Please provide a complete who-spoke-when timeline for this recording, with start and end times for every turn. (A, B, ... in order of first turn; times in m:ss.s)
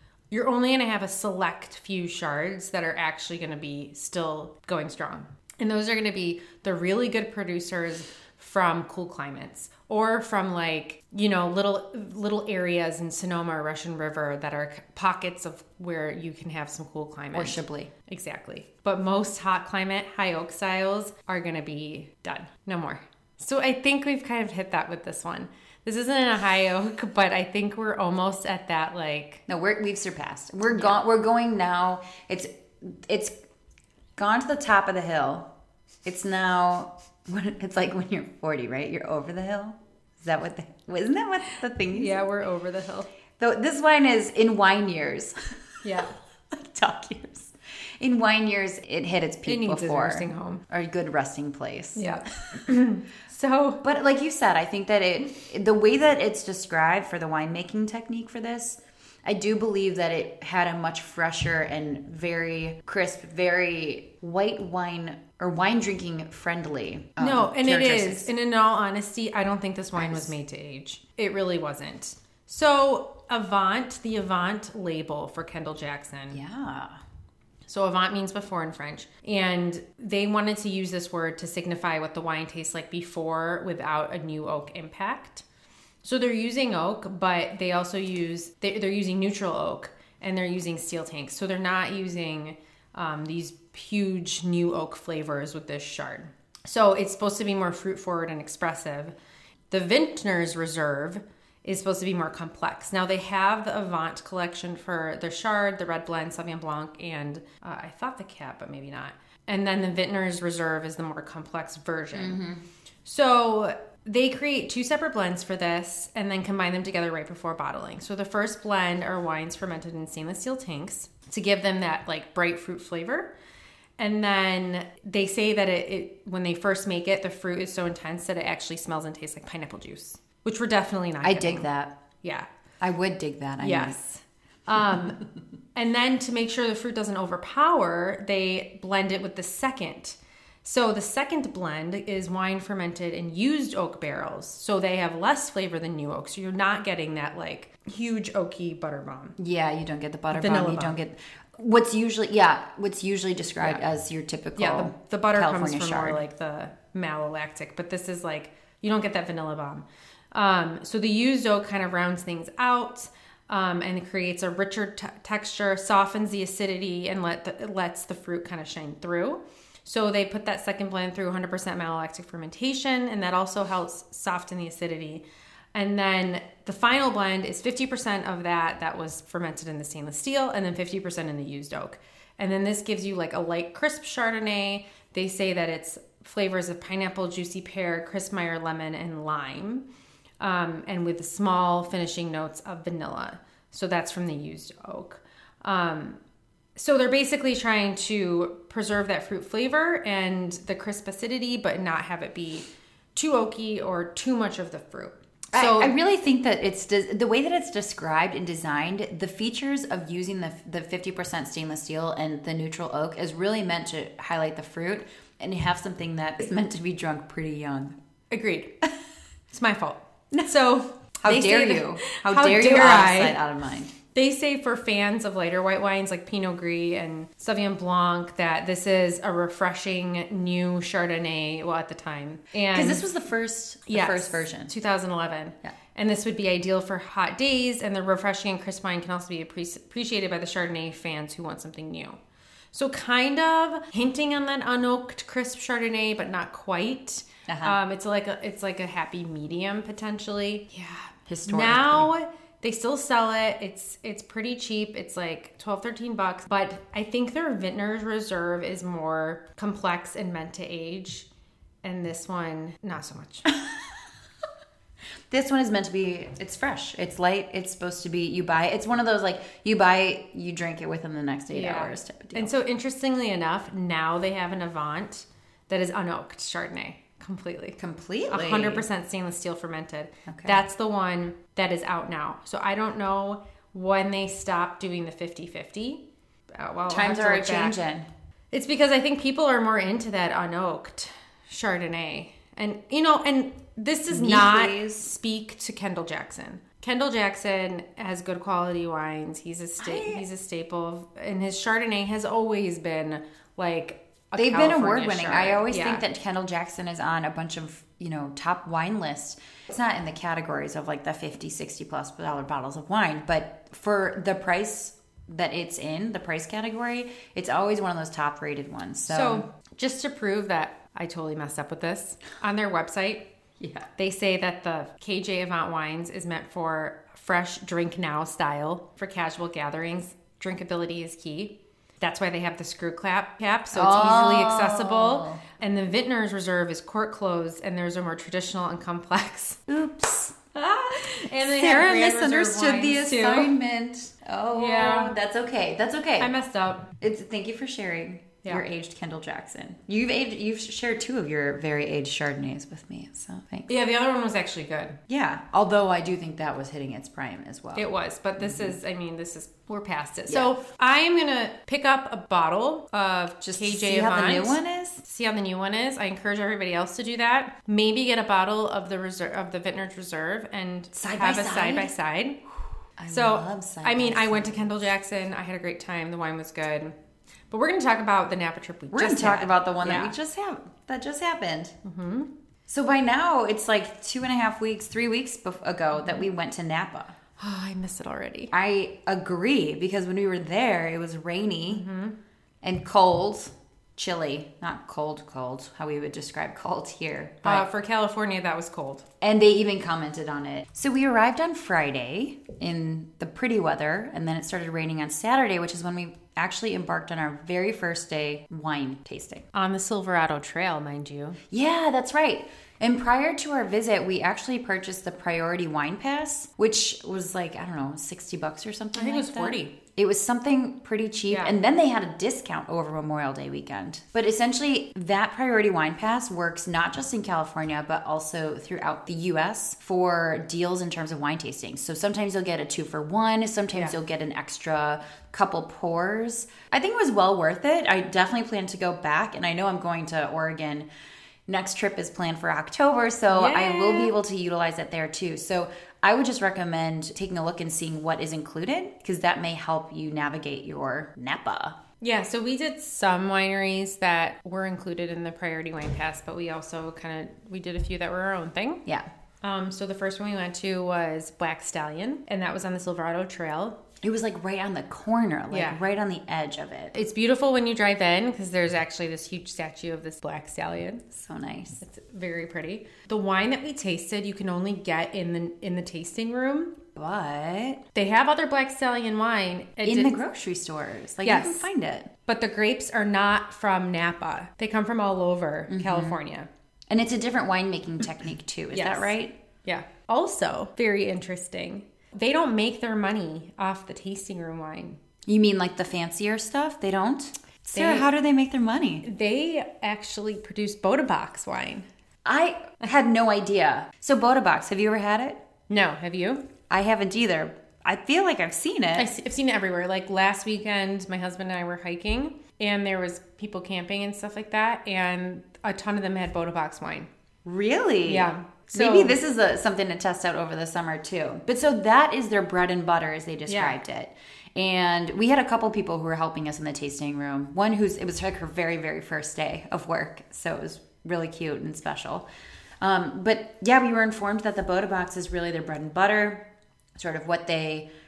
0:00.3-0:29.4 A
0:17.3-0:17.9 B
0:29.5-0:33.3 B
0:34.2-0:35.5 B
0:36.0-0:42.2 B
0:41.9-0:43.1 A
0:43.4-0:45.6 B
0:45.8-0:46.1 A
0:46.5-0:52.0 B
0:49.5-0:50.6 A
0:52.0-0:53.8 A
0:53.8-1:08.3 B
1:07.2-1:16.4 A
1:10.0-1:10.3 B
1:16.3-1:17.0 B
1:17.7-1:25.4 A
1:26.0-1:39.1 A
1:39.7-1:52.4 A
1:52.1-1:52.6 B
1:53.0-2:03.3 A
2:04.0-2:11.7 A
2:11.2-2:12.0 B
2:12.2-2:12.5 A
2:12.8-2:14.0 B
2:13.6-2:29.4 A
2:29.4-2:36.2 B
2:30.3-2:31.0 A
2:34.6-3:09.8 A
3:10.4-3:16.2 A
3:16.8-3:26.0 A
3:25.5-3:38.0 B
3:38.3-3:38.8 A
3:39.5-3:43.4 A
3:41.2-3:43.9 B
3:44.1-3:53.1 A
3:52.7-3:54.7 B
3:53.9-4:02.2 A
4:02.7-4:21.3 A
4:07.5-4:07.8 B
4:11.3-4:12.1 B
4:21.8-4:23.5 A
4:25.3-4:32.5 B
4:31.5-4:46.0 A
4:37.8-4:38.9 B
4:40.3-4:40.6 B
4:46.5-4:47.8 A
4:46.9-4:48.1 B
4:48.5-5:06.0 A
4:54.1-4:55.1 B
4:59.8-5:00.2 B
5:04.4-5:19.5 B
5:19.1-5:23.3 A
5:23.6-5:23.9 B
5:24.0-5:39.6 A
5:33.7-5:35.4 B
5:39.7-5:40.4 B
5:40.5-5:43.6 A
5:41.4-5:46.3 B
5:44.6-5:45.2 A
5:46.2-5:46.9 A
5:47.0-5:53.7 B
5:53.7-5:55.0 A
5:55.1-5:57.9 B
5:57.8-6:12.4 A
5:58.4-5:58.7 B
6:03.4-6:05.0 B
6:11.0-6:11.9 B
6:13.0-6:14.8 B
6:13.1-6:16.9 A
6:17.5-6:20.1 A
6:18.9-6:21.8 B
6:21.8-6:22.3 A
6:22.7-6:27.2 B
6:26.0-6:26.2 A
6:27.4-6:28.5 A
6:28.5-6:31.8 B
6:31.7-6:32.2 A
6:32.6-6:37.7 B
6:37.4-6:39.1 A
6:39.2-6:49.5 B
6:49.5-6:51.4 A
6:51.5-7:20.9 B
6:59.0-6:59.8 A
7:01.3-7:01.6 A
7:21.5-7:31.8 B
7:23.3-7:24.1 A
7:32.0-7:38.8 A
7:39.4-7:43.8 A
7:44.0-7:47.0 B
7:45.5-7:45.8 A
7:46.9-7:51.1 A
7:51.1-7:51.8 B
7:51.8-7:56.8 A
7:57.0-7:57.8 B
7:58.0-8:00.2 A
7:59.8-8:02.1 B
8:01.2-8:01.7 A
8:02.3-8:06.5 A
8:05.7-8:06.2 B
8:06.9-8:09.4 B
8:08.7-8:15.0 A
8:15.3-8:19.0 B
8:17.7-8:18.1 A
8:19.0-8:21.9 A
8:22.2-8:25.4 B
8:25.7-8:26.5 A
8:26.7-8:29.1 B
8:29.0-8:37.1 A
8:37.4-8:52.3 B
8:38.1-8:39.2 A
8:43.5-8:43.8 A
8:52.8-8:56.4 B
8:57.0-8:57.9 B